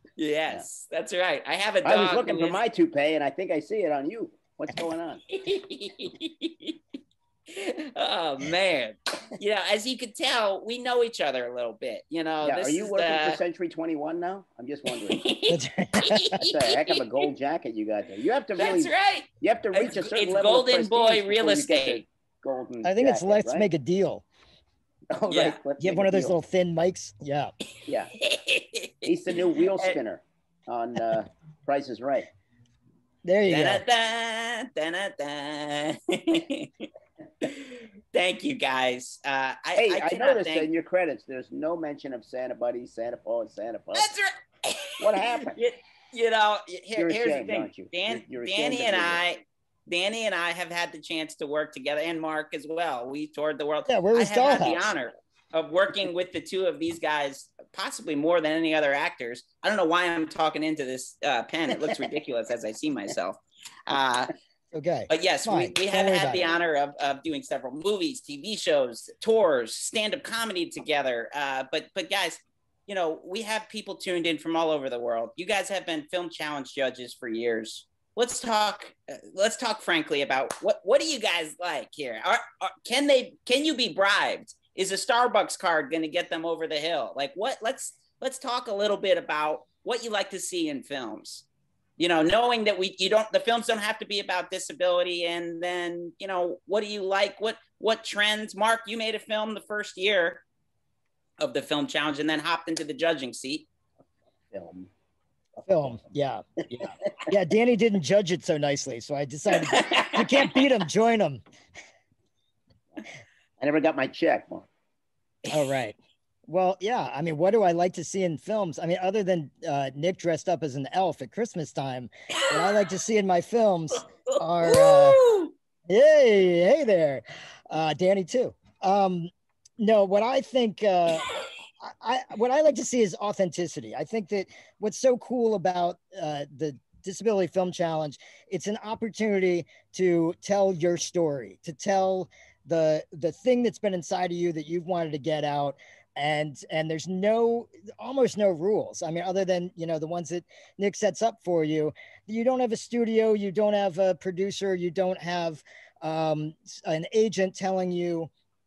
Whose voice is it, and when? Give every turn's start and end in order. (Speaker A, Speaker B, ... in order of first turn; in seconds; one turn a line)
Speaker A: 0.2-2.6
Speaker B: 1.8-5.2
Speaker A: 5.3-6.8
Speaker A: 7.5-13.4
Speaker B: 12.4-15.2
Speaker A: 15.2-17.2
Speaker C: 15.5-16.4
Speaker B: 16.4-23.7
Speaker A: 18.6-22.0
Speaker C: 22.8-24.2
Speaker B: 25.1-26.4
Speaker A: 25.3-25.6
Speaker C: 25.8-27.5
Speaker B: 27.9-28.1
Speaker A: 28.2-29.1
Speaker B: 29.0-32.3
Speaker C: 33.2-33.8
Speaker A: 33.5-36.9
Speaker A: 37.4-40.7
Speaker B: 39.8-44.1
Speaker A: 44.0-64.3
Speaker B: 45.0-45.6
Speaker B: 46.9-49.2
Speaker C: 53.9-54.9
Speaker C: 64.7-66.5
Speaker A: 65.1-91.4
Speaker A: 92.0-100.4
Speaker A: 101.4-103.7
Speaker B: 104.5-104.9
Speaker B: 105.6-106.0
Speaker C: 105.7-111.4
Speaker B: 113.6-114.7
Speaker C: 115.5-125.2
Speaker A: 122.4-122.8
Speaker A: 124.3-125.5
Speaker C: 125.9-131.3
Speaker C: 131.8-158.3